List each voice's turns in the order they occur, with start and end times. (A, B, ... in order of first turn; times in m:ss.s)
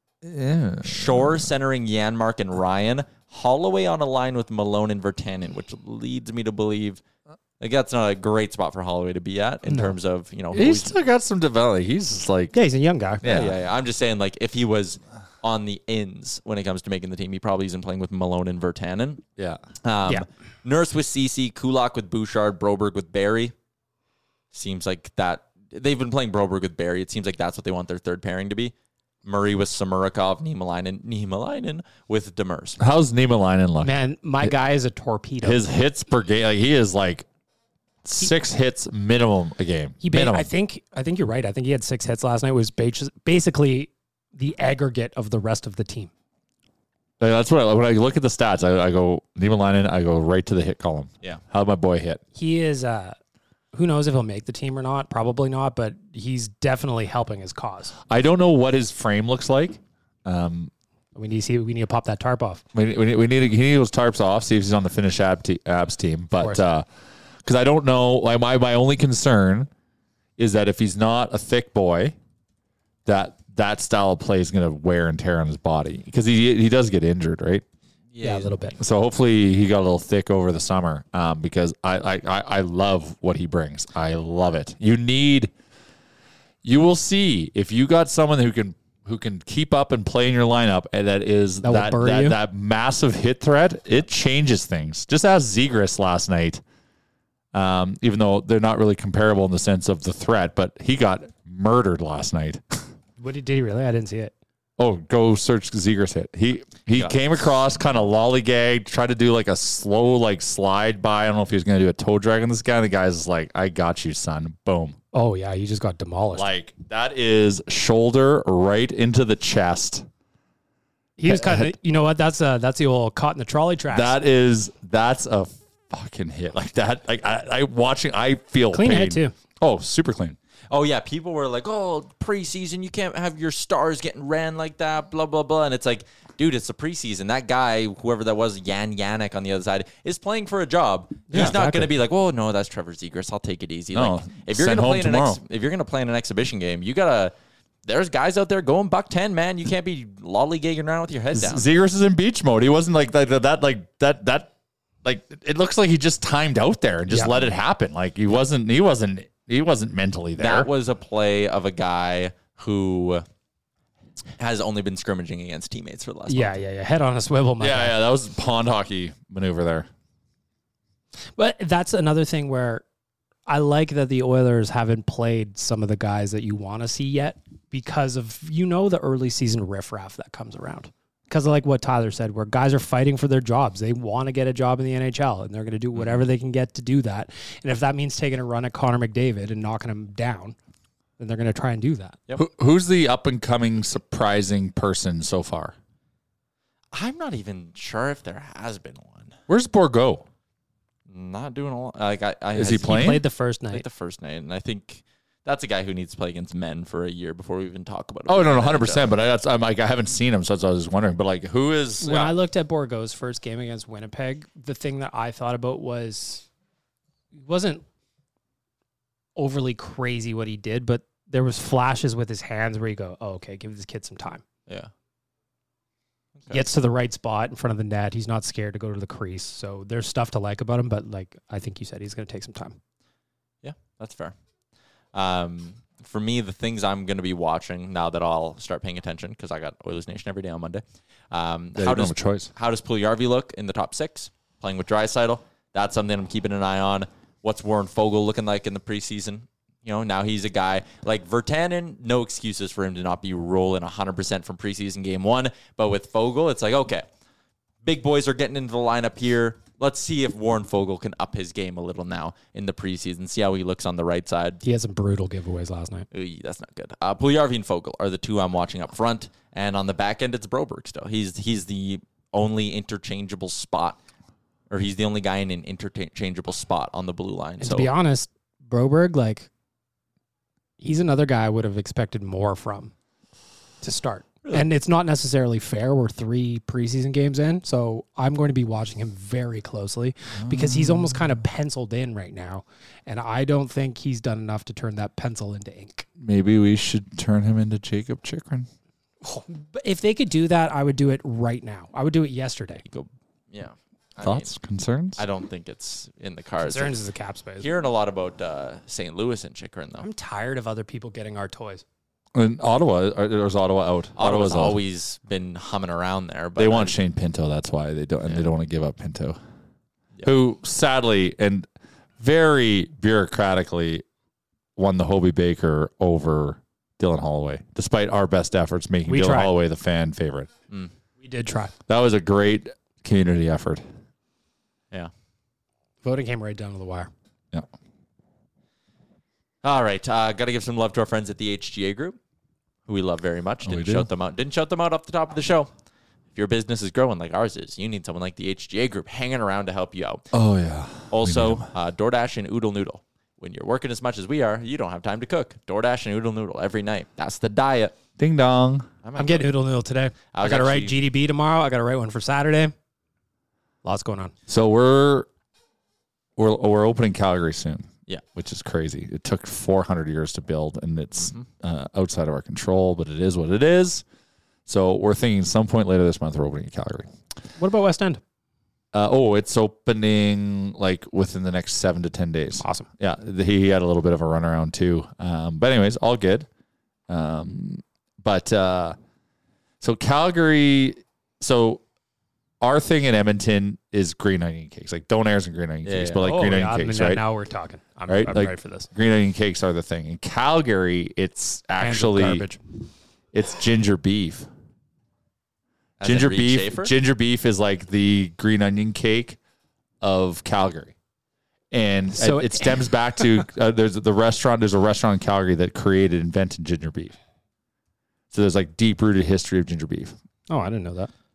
0:00.2-0:01.5 A
0:00.8-0:07.0 B
0:07.6-0:10.9 B
0:09.7-0:09.9 C
0:10.5-0:12.6 A
0:12.5-0:13.2 C
0:13.2-0:13.6 A
0:13.2-0:19.2 B
0:19.8-0:23.5 B
0:24.5-0:28.7 B
0:29.2-0:32.8 B
0:32.8-0:34.5 A
0:33.8-0:35.6 C
0:35.4-0:37.3 A
0:38.0-0:40.5 A
0:40.0-0:46.1 C
0:47.2-0:52.2 A
0:52.4-0:53.2 C
0:53.7-0:57.9 C
0:58.1-1:00.7 A
1:01.1-1:02.6 C
1:02.7-1:06.9 A
1:06.4-1:06.6 C
1:07.4-1:09.7 A
1:10.4-1:12.2 A
1:13.1-1:17.6 A
1:18.1-1:18.7 B
1:18.2-1:18.8 C
1:18.8-1:25.5 A
1:26.6-1:36.6 A
1:31.6-1:32.4 C
1:37.5-1:42.6 A
1:43.2-1:44.3 C
1:44.8-1:55.0 A
1:55.1-1:56.5 C
1:56.3-2:00.1 A
2:01.2-2:04.2 C
2:01.2-2:01.7 A
2:03.9-2:10.4 A
2:08.7-2:09.3 C
2:10.7-2:27.3 B
2:21.3-2:21.9 C
2:21.3-2:21.6 A
2:23.9-2:25.4 A
2:27.8-2:31.6 B
2:31.3-2:34.5 A
2:35.0-2:40.7 A
2:37.1-2:37.5 C
2:40.4-2:43.2 B
2:44.4-2:46.6 B
2:46.3-2:48.0 C
2:47.6-2:49.9 A
2:51.4-2:52.8 C
2:53.5-3:10.6 C
3:11.2-3:12.2 C
3:12.4-3:15.8 A
3:16.9-3:19.4 B
3:19.5-3:20.3 A
3:21.1-3:29.1 B
3:22.6-3:23.2 A
3:22.8-3:23.8 C
3:28.3-3:32.4 A
3:32.0-3:36.4 C
3:37.4-3:37.8 C
3:39.4-3:44.4 C
3:46.4-3:46.6 B
3:46.5-3:52.8 C
3:53.6-3:54.3 B
3:55.1-4:17.0 B
4:01.8-4:02.5 A
4:17.8-4:24.6 B
4:24.6-4:26.1 C
4:26.1-4:34.0 B
4:34.7-4:37.9 B
4:37.6-4:39.5 C
4:40.8-4:42.9 C
4:43.8-4:56.1 C
4:50.4-4:51.4 A
4:56.2-4:58.7 A
4:59.2-5:02.8 C
5:02.8-5:04.5 B
5:04.2-5:05.2 A
5:05.2-5:07.0 B
5:06.6-5:07.7 C
5:07.6-5:10.1 B
5:10.0-5:11.8 C
5:12.4-5:14.8 A
5:14.2-5:17.0 B
5:16.6-5:19.4 A
5:20.2-5:21.7 A
5:22.2-5:24.0 A
5:24.8-5:30.5 A
5:29.1-5:29.5 C
5:31.2-5:31.7 C
5:31.9-5:33.8 A
5:36.0-5:37.1 C
5:39.6-5:42.2 B
5:42.9-5:45.7 B
5:43.6-5:44.1 A
5:46.4-5:50.2 B
5:50.3-5:51.7 A
5:51.1-5:57.9 B
5:58.2-5:58.9 A
5:59.0-5:59.5 B
5:59.2-6:02.7 C
6:00.3-6:01.0 B
6:03.8-6:04.3 C
6:04.5-6:05.3 A
6:06.4-6:14.0 A
6:11.2-6:11.5 B
6:14.7-6:17.1 A
6:17.6-6:18.2 C
6:18.9-6:26.5 A
6:22.6-6:22.9 C
6:27.1-6:29.0 A
6:29.8-6:31.8 A
6:32.6-6:37.2 A
6:35.8-6:36.2 B
6:36.2-6:38.9 C
6:38.1-6:42.4 A
6:41.8-6:42.6 C
6:43.3-6:44.5 A
6:46.0-6:46.9 B
6:46.0-6:49.4 A
6:50.0-6:50.9 A
6:51.7-6:57.1 A
6:52.1-6:53.3 C
6:58.3-7:00.1 A
7:00.5-7:01.1 C